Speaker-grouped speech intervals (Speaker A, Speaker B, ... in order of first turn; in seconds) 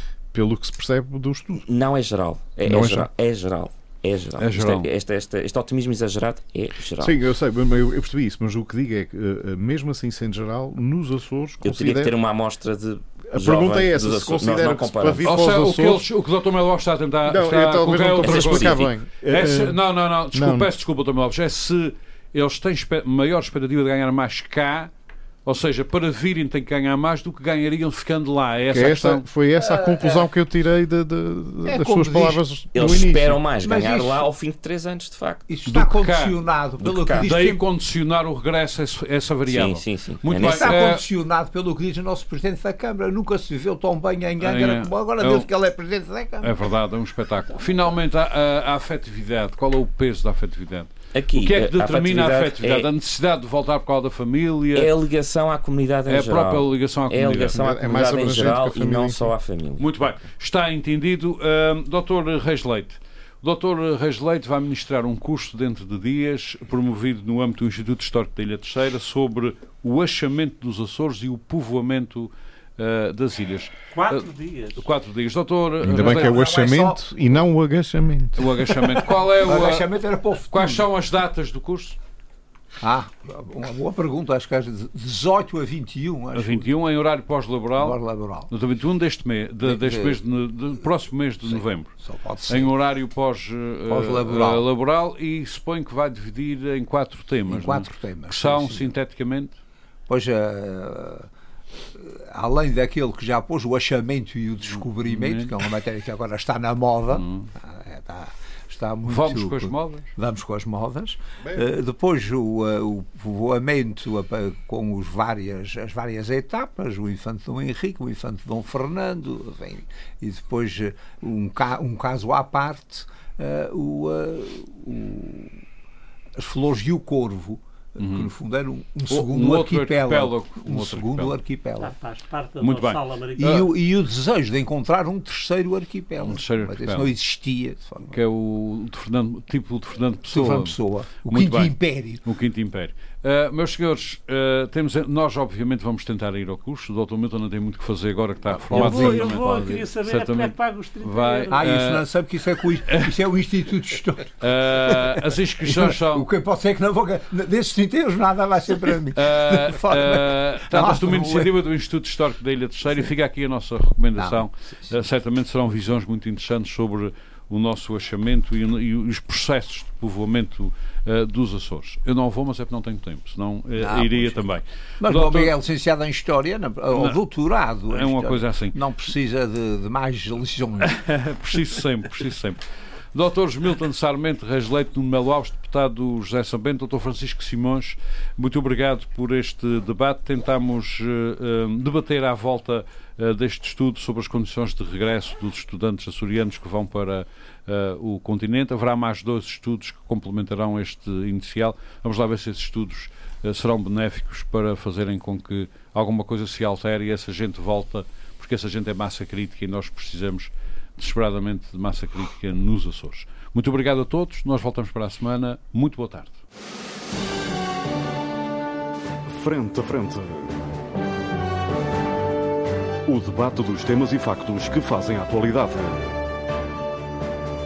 Speaker A: 0.3-1.7, 2.6-3.1, 7.0-12.2, 13.3-16.1, 17.2-20.7, 28.7-33.4, 57.5-59.3, 75.8-79.0, 111.4-111.7
Speaker B: 1.6-7.2, 11.6-15.3, 18.2-18.9, 32.7-35.5, 36.8-37.3, 39.5-40.9, 51.1-52.9, 54.7-59.9
Speaker C: 4.4-4.9, 15.2-24.9, 25.4-29.3, 35.7-36.4, 37.2-41.0, 44.4-45.5, 46.4-54.9, 56.1-58.2, 59.8-76.4, 78.4-79.9, 80.5-82.0, 86.3-91.9, 92.5-99.6, 104.7-105.5, 107.1-107.5, 109.1-110.1, 128.0-128.3, 129.1-131.4, 132.6-133.0, 136.2-137.1, 138.1-152.1, 152.9-153.1, 154.4-156.3, 159.1-175.5, 176.9-177.2, 177.9-178.8, 180.8-216.4
Speaker D: 29.6-30.3, 31.6-32.4, 33.6-34.3, 35.5-37.6, 40.4-46.5, 76.0-77.4, 79.1-80.9, 82.8-86.7, 87.8-88.5, 89.6-90.2, 91.4-92.7, 93.9-94.7, 97.5-98.9, 100.1-101.3, 101.9-125.6, 126.4-131.9, 133.4-138.2, 140.3-142.2, 148.5-149.8, 151.5-161.5, 164.2-164.9, 173.8-174.5, 175.0-181.0
Speaker E: 73.9-74.8, 131.8-133.7, 148.7-151.6
Speaker F: 219.2-220.7, 223.1-226.2